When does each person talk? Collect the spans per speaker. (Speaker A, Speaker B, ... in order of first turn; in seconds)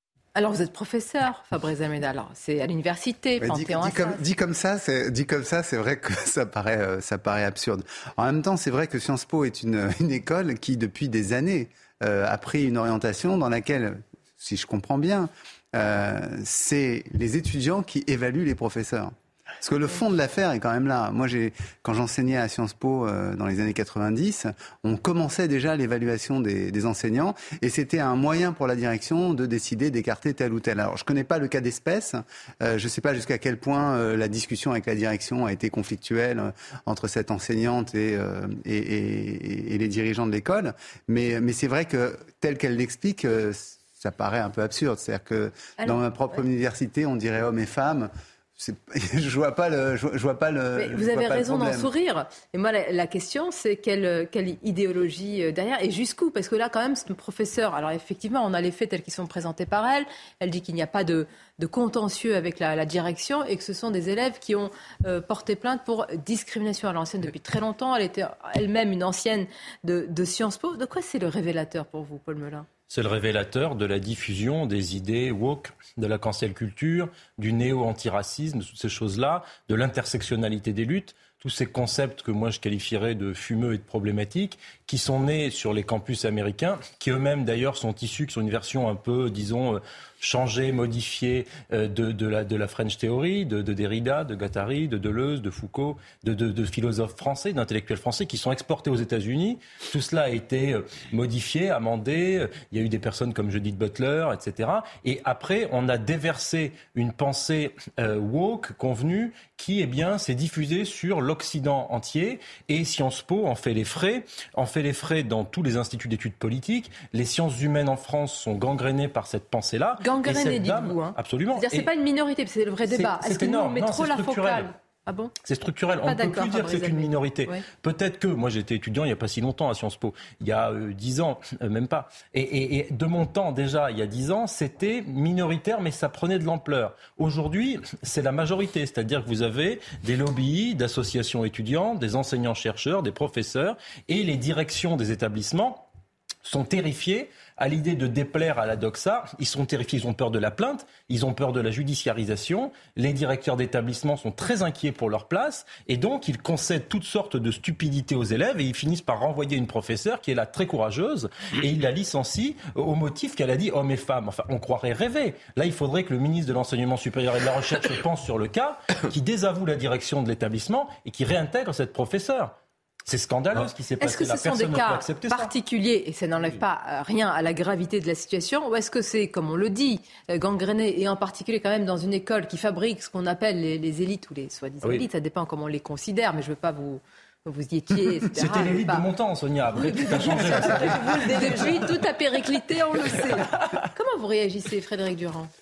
Speaker A: 0.3-4.2, 50.8-72.7, 120.0-125.3, 126.0-127.6, 174.0-189.0, 189.8-195.5
Speaker B: 3.4-51.9
Speaker C: 72.9-121.9, 122.9-124.7, 125.4-145.9, 146.4-172.6, 173.1-175.5, 188.3-191.8